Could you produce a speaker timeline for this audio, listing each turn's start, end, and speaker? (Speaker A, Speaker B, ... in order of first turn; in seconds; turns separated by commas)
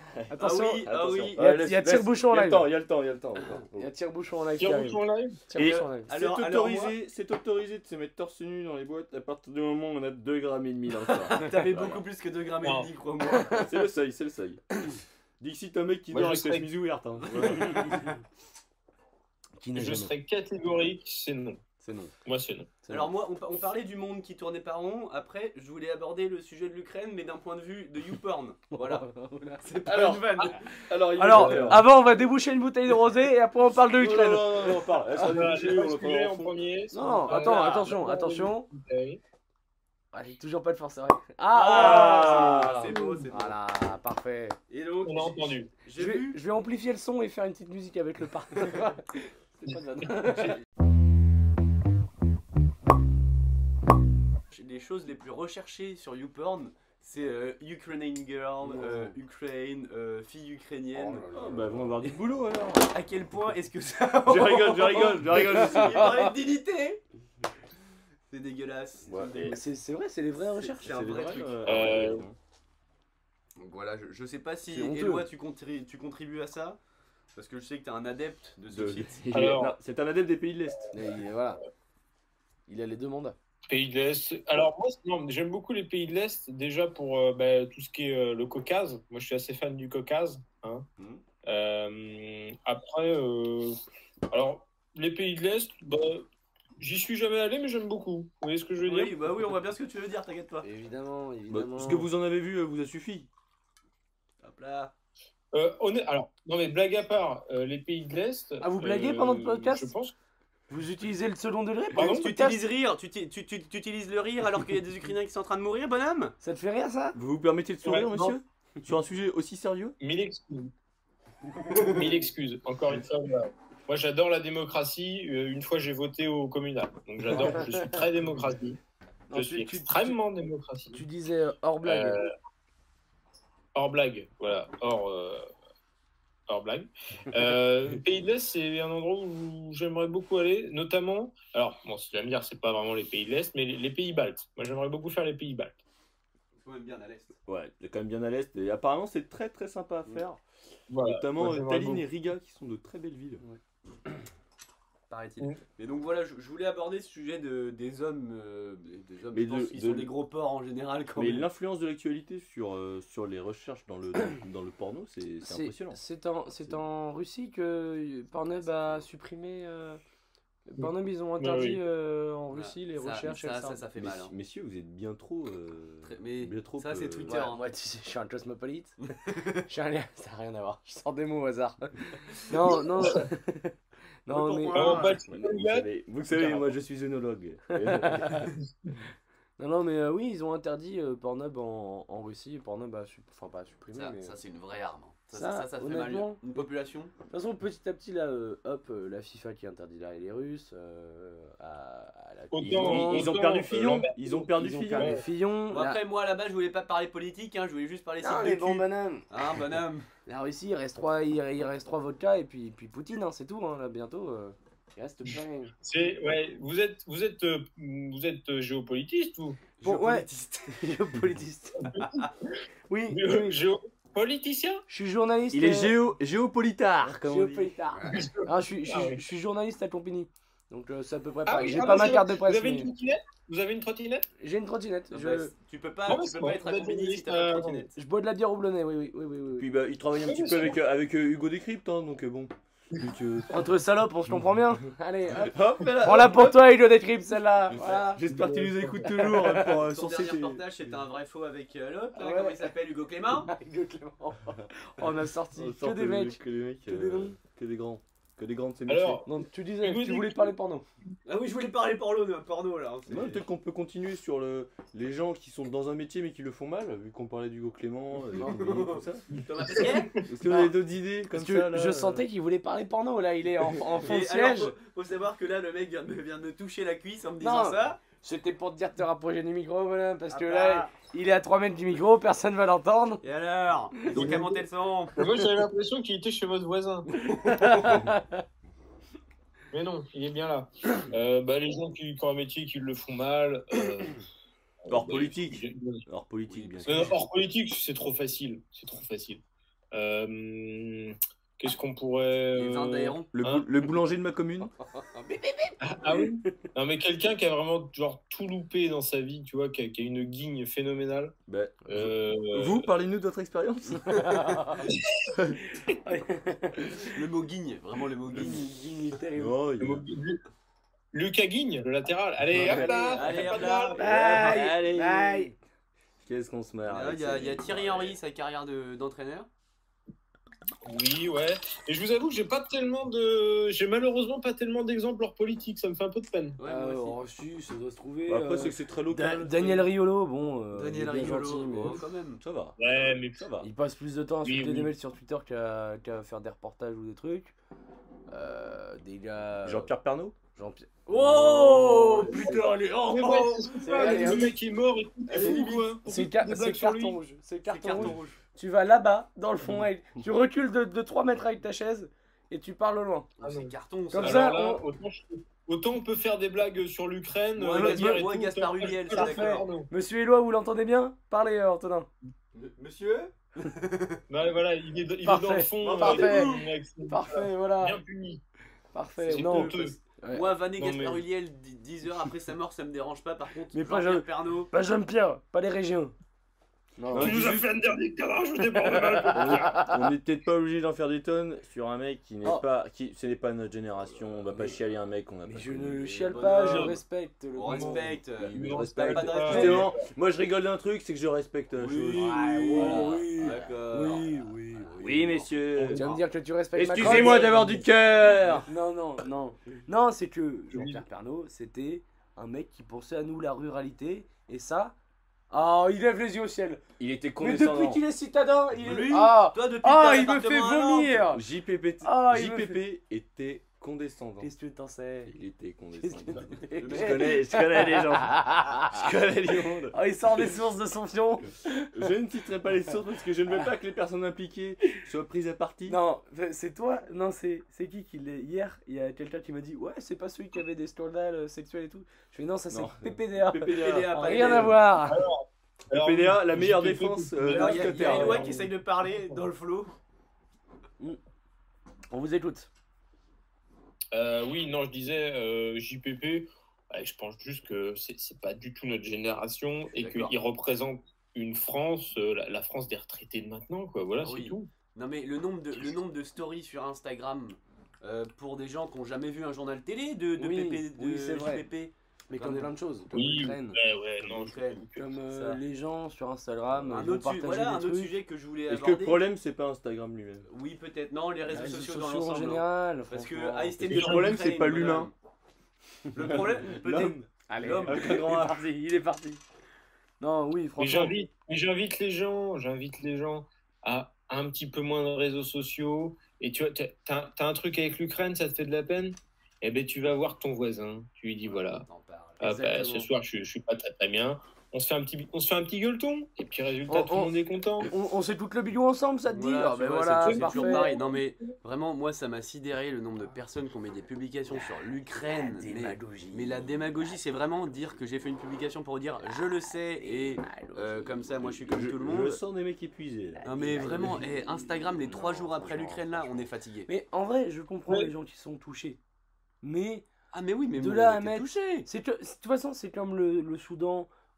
Speaker A: 0.3-2.7, Speaker B: 0.4-1.5, Speaker C: 0.8-3.9, Speaker A: 3.8-6.1, Speaker D: 4.6-5.4, Speaker C: 5.5-12.0, Speaker B: 5.7-7.0, Speaker B: 11.3-13.6, Speaker D: 12.6-12.9, Speaker A: 13.3-13.7, Speaker C: 13.6-14.7, Speaker C: 15.4-18.0, Speaker D: 16.1-16.7, Speaker B: 17.2-18.1, Speaker A: 17.7-18.0, Speaker A: 19.6-20.1, Speaker D: 19.8-21.6, Speaker A: 21.8-22.1, Speaker D: 22.2-22.7, Speaker A: 22.8-23.1, Speaker B: 22.9-29.1, Speaker A: 28.7-29.6, Speaker B: 29.6-30.8, Speaker C: 29.9-31.9, Speaker A: 31.2-34.8, Speaker D: 31.3-31.8, Speaker C: 33.9-36.6, Speaker D: 35.2-39.2, Speaker A: 36.9-38.7, Speaker B: 37.3-38.0, Speaker A: 40.1-42.7, Speaker B: 41.5-43.6, Speaker C: 41.7-42.9, Speaker A: 43.3-44.6, Speaker B: 44.7-46.4, Speaker D: 45.0-45.7, Speaker A: 46.0-50.6, Speaker B: 54.5-61.3, Speaker A: 58.6-59.1, Speaker A: 60.9-61.9, Speaker C: 61.3-62.9, Speaker B: 62.9-67.0, Speaker C: 64.3-66.2, Speaker A: 65.5-66.3, Speaker B: 68.3-69.6, Speaker C: 69.1-69.6, Speaker A: 69.4-71.0, Speaker B: 70.6-71.8, Speaker C: 70.8-72.4, Speaker D: 71.7-72.2, Speaker B: 73.6-76.8, Speaker A: 74.7-75.3, Speaker B: 77.3-79.3, Speaker C: 78.7-80.8, Speaker D: 79.3-79.8, Speaker A: 80.9-81.6, Speaker A: 82.7-83.4, Speaker D: 83.7-90.9, Speaker D: 91.4-93.8, Speaker D: 94.3-96.3, Speaker D: 96.8-99.2, Speaker B: 98.8-100.7, Speaker A: 100.6-102.1, Speaker C: 101.5-103.3, Speaker B: 104.4-104.9, Speaker D: 105.5-110.2, Speaker A: 108.6-109.9, Speaker A: 110.7-112.6, Speaker D: 112.0-112.3, Speaker B: 112.0-116.3, Speaker A: 116.4-117.2, Speaker C: 117.2-120.0, Speaker D: 117.8-118.3, Speaker D: 120.0-120.7, Speaker B: 121.7-122.1, Speaker D: 121.7-128.8, Speaker A: 129.3-130.2, Speaker D: 129.3-131.0, Speaker A: 130.9-132.2, Speaker D: 131.8-132.3, Speaker D: 133.7-135.5, Speaker D: 136.5-145.8, Speaker B: 146.6-147.4, Speaker C: 147.5-150.4, Speaker D: 150.9-152.1, Speaker C: 151.0-153.4, Speaker B: 155.1-161.5, Speaker C: 159.3-160.1, Speaker C: 161.2-166.0, Speaker A: 165.4-170.0, Speaker A: 170.7-173.8, Speaker D: 170.8-171.8, Speaker B: 172.5-174.3, Speaker C: 174.0-177.5, Speaker B: 176.0-177.6, Speaker A: 177.3-179.0, Speaker B: 179.1-179.7, Speaker A: 179.7-185.1, Speaker B: 184.3-185.2, Speaker D: 184.7-186.7, Speaker C: 185.3-188.5, Speaker A: 187.8-188.5, Speaker A: 189.6-194.4, Speaker B: 193.9-197.1, Speaker A: 195.3-196.4, Speaker A: 197.3-203.4, Speaker D: 202.5-204.1, Speaker C: 202.6-205.2, Speaker A: 204.3-206.0, Speaker D: 205.0-205.2, Speaker B: 205.7-210.1, Speaker A: 208.2-209.3, Speaker A: 210.3-215.7, Speaker D: 215.3-219.6, Speaker B: 219.8-220.7, Speaker A: 219.8-221.9, Speaker D: 221.8-222.6, Speaker B: 222.0-222.3, Speaker A: 222.9-223.6, Speaker D: 223.1-224.8, Speaker A: 224.9-225.9, Speaker C: 225.5-227.7, Speaker A: 227.1-232.9, Speaker D: 228.1-229.2, Speaker D: 231.5-234.3, Speaker A: 234.4-235.5, Speaker B: 235.1-237.9, Speaker D: 236.1-237.9, Speaker A: 238.0-239.7, Speaker C: 239.6-243.7, Speaker D: 240.2-240.8, Speaker A: 243.5-248.2, Speaker C: 245.3-246.6, Speaker C: 247.7-250.6, Speaker D: 248.3-249.1, Speaker A: 249.0-249.8, Speaker B: 249.6-253.5, Speaker A: 252.2-252.7, Speaker A: 253.4-257.4, Speaker C: 255.6-259.2, Speaker D: 258.9-260.5, Speaker A: 259.3-260.9, Speaker B: 261.2-263.4, Speaker C: 263.1-269.3, Speaker B: 268.4-270.2, Speaker D: 269.6-270.2, Speaker C: 270.2-272.2, Speaker A: 271.3-274.8, Speaker B: 274.0-278.0, Speaker A: 277.4-283.2, Speaker B: 280.3-280.9, Speaker B: 283.2-285.3, Speaker A: 284.0-284.4, Speaker D: 284.1-284.6, Speaker D: 285.2-287.1, Speaker B: 287.1-288.1, Speaker A: 287.2-288.4, Speaker D: 289.7-294.2, Speaker D: 294.9-296.0, Speaker C: 294.9-297.1, Speaker B: 296.5-297.2, Speaker D: 296.9-299.4, Speaker D: 299.9-303.6, Speaker B: 302.5-303.3, Speaker C: 303.3-304.7, Speaker A: 304.9-306.5, Speaker D: 305.8-311.4, Speaker C: 311.5-314.6, Speaker D: 311.9-312.9, Speaker A: 314.1-314.9, Speaker D: 314.8-315.4, Speaker A: 315.7-317.2, Speaker B: 317.1-318.7, Speaker A: 318.3-319.6, Speaker C: 319.4-320.0, Speaker D: 319.8-320.4, Speaker D: 321.1-324.1, Speaker C: 322.5-323.4, Speaker A: 322.6-323.2, Speaker B: 322.6-324.7, Speaker A: 323.9-325.5, Speaker C: 324.0-325.5, Speaker C: 326.2-328.2, Speaker B: 326.9-329.5, Speaker D: 330.9-336.6, Speaker B: 336.6-337.2, Speaker A: 336.6-342.0, Speaker C: 338.3-339.9, Speaker B: 340.7-342.4, Speaker C: 342.4-343.7, Speaker D: 342.8-343.4, Speaker A: 343.6-347.5, Speaker D: 344.4-344.9, Speaker A: 348.3-349.9, Speaker C: 349.6-350.4, Speaker A: 350.6-354.6, Speaker B: 351.2-354.5, Speaker C: 351.6-352.5, Speaker D: 352.2-357.2, Speaker B: 355.3-355.9, Speaker A: 355.4-363.3, Speaker B: 357.6-358.4, Speaker B: 363.4-364.6, Speaker D: 363.4-369.9, Speaker A: 364.1-364.8, Speaker B: 367.6-369.7, Speaker A: 367.7-368.2, Speaker A: 369.1-372.1, Speaker B: 372.5-374.2, Speaker D: 374.3-378.4, Speaker A: 375.2-378.0, Speaker C: 375.8-376.4, Speaker B: 375.9-376.6, Speaker A: 378.9-380.5, Speaker D: 379.2-380.0, Speaker B: 379.3-384.7, Speaker D: 380.8-381.2, Speaker A: 383.7-386.1, Speaker A: 387.0-387.4, Speaker C: 387.1-387.8, Speaker D: 387.1-389.8, Speaker A: 388.8-390.0, Speaker C: 389.3-396.3, Speaker A: 395.5-398.2, Speaker B: 396.1-397.0, Speaker D: 396.4-397.0, Speaker B: 397.6-399.9, Speaker D: 397.7-400.0, Speaker C: 398.4-403.5, Speaker A: 399.4-399.8, Speaker B: 401.8-406.2, Speaker A: 402.1-404.9, Speaker C: 405.0-406.1, Speaker A: 405.9-407.5, Speaker C: 406.8-408.7, Speaker D: 407.0-407.8, Speaker B: 407.1-407.6, Speaker A: 408.7-414.9, Speaker D: 410.7-411.0, Speaker A: 415.5-416.8, Speaker C: 417.0-418.0, Speaker A: 417.4-421.4, Speaker B: 418.8-421.3, Speaker C: 421.3-424.5, Speaker A: 422.0-422.8, Speaker A: 424.4-425.4, Speaker C: 425.3-430.0, Speaker A: 426.0-429.1, Speaker B: 426.8-427.4, Speaker A: 429.9-431.9, Speaker C: 431.9-436.0, Speaker A: 435.9-445.2, Speaker C: 442.7-444.7, Speaker B: 443.7-444.8, Speaker D: 445.1-448.6, Speaker C: 445.9-448.5, Speaker B: 447.5-449.9, Speaker A: 447.6-448.7, Speaker A: 452.1-452.7, Speaker D: 454.1-464.7, Speaker B: 460.0-460.3, Speaker B: 464.2-472.7, Speaker A: 470.4-471.7, Speaker A: 472.3-473.8, Speaker D: 473.1-475.1, Speaker B: 474.2-475.6, Speaker A: 475.0-478.1, Speaker B: 476.9-479.2, Speaker C: 478.7-480.5, Speaker B: 480.5-485.1, Speaker A: 481.5-483.9, Speaker C: 483.8-485.1, Speaker D: 484.0-484.3, Speaker B: 486.1-488.3, Speaker C: 486.2-487.3, Speaker A: 487.5-489.4, Speaker C: 487.8-488.7, Speaker A: 490.2-491.1, Speaker D: 490.8-501.9, Speaker B: 501.4-502.4, Speaker A: 502.4-503.1, Speaker D: 502.4-507.9, Speaker A: 506.9-511.0, Speaker B: 509.3-522.4, Speaker D: 510.2-511.2, Speaker A: 514.5-516.8, Speaker A: 520.0-521.3, Speaker C: 521.4-524.1, Speaker A: 523.4-529.0, Speaker B: 523.5-526.9, Speaker A: 529.6-530.1, Speaker B: 530.3-531.9, Speaker A: 530.8-534.1